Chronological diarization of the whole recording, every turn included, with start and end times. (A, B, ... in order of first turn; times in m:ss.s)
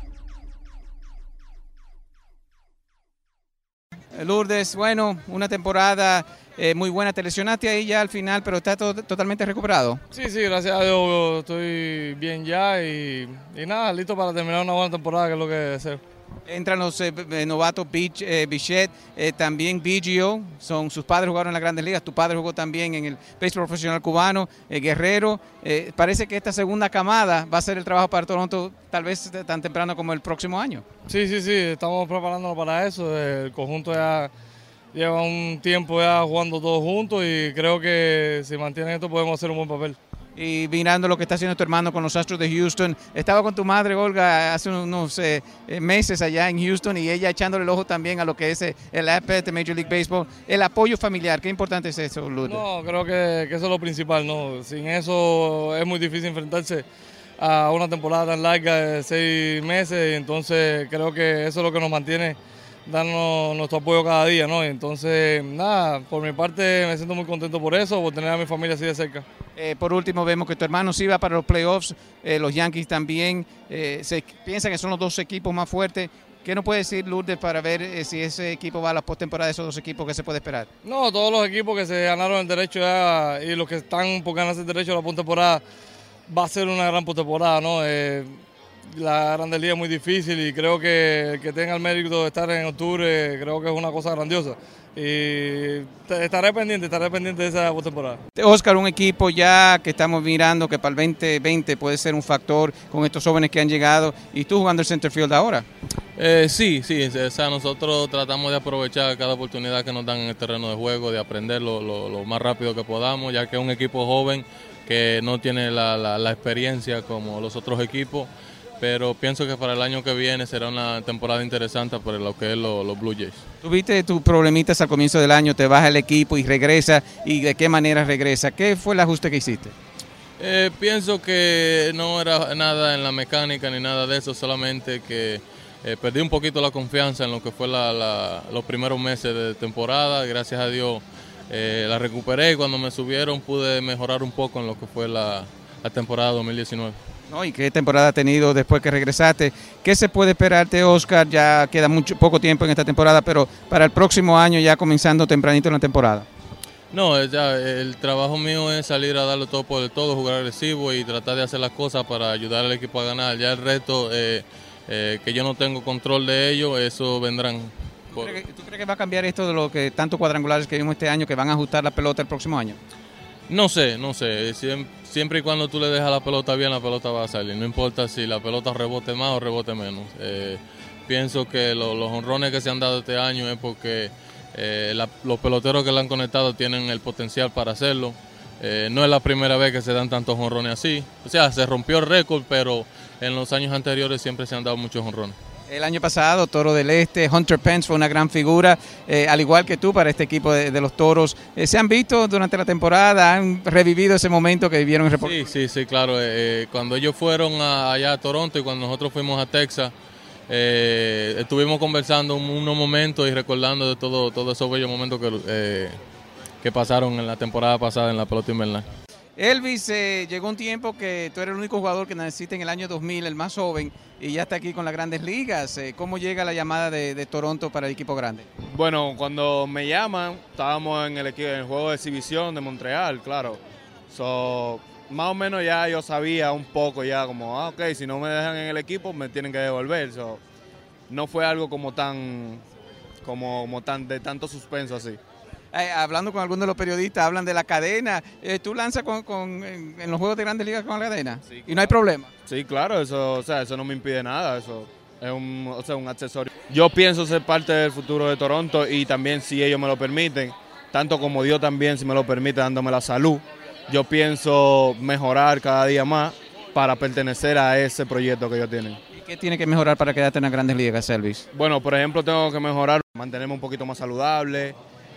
0:04.1-0:10.0 A
0:10.1-0:16.0 B
0:16.5-0:30.9 A
0:31.1-0:34.3 B
0:34.9-0:40.0 B
0:40.4-0:52.6 A
0:52.5-0:56.8 B
0:57.4-1:09.2 B
1:09.6-1:20.7 A
1:20.8-1:25.6 B
1:26.3-1:28.4 B
1:28.9-1:38.2 B
1:38.4-1:45.7 A
1:46.2-2:03.4 C
2:03.6-2:09.7 A
2:10.4-2:27.0 C
2:27.3-2:36.3 A
2:36.9-2:48.3 C
2:48.1-2:52.8 A
2:53.5-3:15.4 C
3:15.7-3:25.4 A
3:25.2-3:29.9 C
3:30.5-3:36.0 C
3:36.6-3:38.9 C
3:39.4-3:48.5 A
3:48.7-4:00.4 D
4:01.1-4:02.6 D
4:03.2-4:05.2 D
4:05.7-4:12.3 A
4:12.5-4:29.0 D
4:29.1-4:31.4 A
4:31.5-4:34.8 D